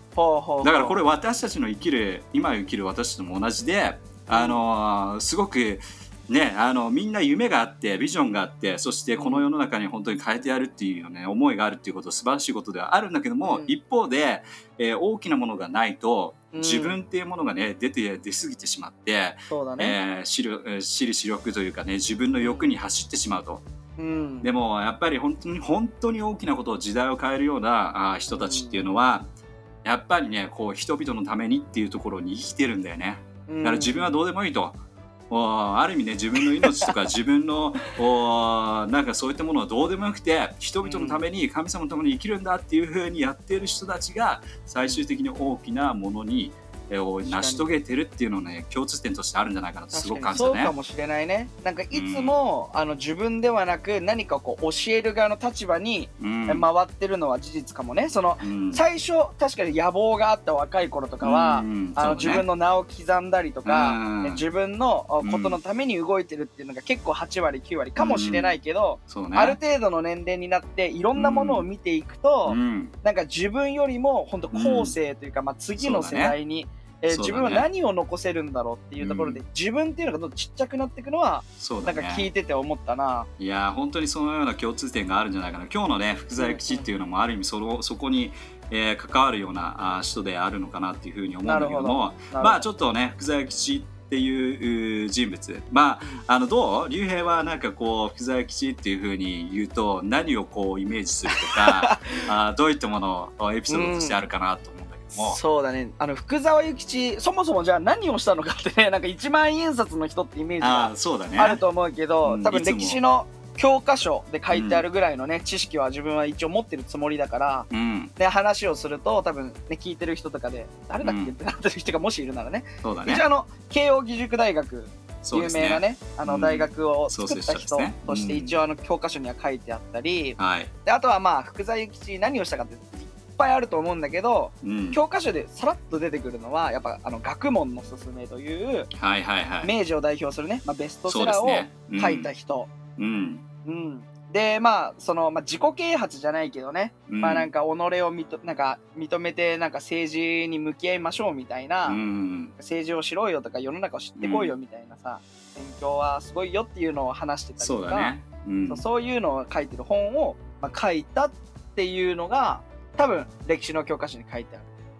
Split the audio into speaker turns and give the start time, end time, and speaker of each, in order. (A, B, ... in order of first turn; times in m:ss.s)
0:00.1-0:01.0 A
0:00.6-0:23.6 B
0:04.3-0:04.6 A
0:09.2-0:09.4 A
0:13.4-0:13.7 A
0:16.5-0:17.0 A
0:19.5-0:20.0 A
0:22.4-0:22.7 A
0:24.0-0:24.5 A
0:24.4-0:29.3 B
0:28.3-0:28.9 A
0:29.8-0:34.8 B
0:33.5-0:34.1 A
0:35.3-0:50.7 B
0:36.6-0:36.9 A
0:40.8-0:41.2 A
0:47.3-0:47.7 A
0:49.9-1:23.3 A
0:51.9-0:52.3 B
0:56.2-0:56.6 B
0:58.4-0:58.8 B
1:01.2-1:02.4 B
1:03.6-1:04.4 B
1:05.2-1:05.6 B
1:08.0-1:08.6 B
1:09.1-1:09.6 B
1:11.1-1:11.7 B
1:12.4-1:12.9 B
1:14.5-1:15.0 B
1:15.8-1:16.4 B
1:17.1-1:17.7 B
1:19.0-1:19.4 B
1:21.6-1:22.3 B
1:23.4-1:45.4 B
1:26.4-1:26.9 A
1:31.4-1:32.6 A
1:41.3-1:42.2 A
1:43.7-1:44.2 A
1:45.2-2:18.9 A
1:50.6-1:51.6 B
1:52.2-1:53.0 B
1:54.5-1:54.8 B
1:57.7-1:58.1 B
2:01.0-2:01.3 B
2:02.8-2:03.2 B
2:05.2-2:08.6 B
2:10.4-2:10.7 B
2:14.6-2:15.0 B
2:18.9-2:19.7 B
2:19.6-2:22.7 A
2:21.1-2:22.3 B
2:23.0-2:23.4 B
2:23.6-2:32.0 A
2:27.1-2:27.5 B
2:31.8-2:32.5 B
2:32.6-2:44.7 A
2:34.2-2:34.5 B
2:37.6-2:38.8 B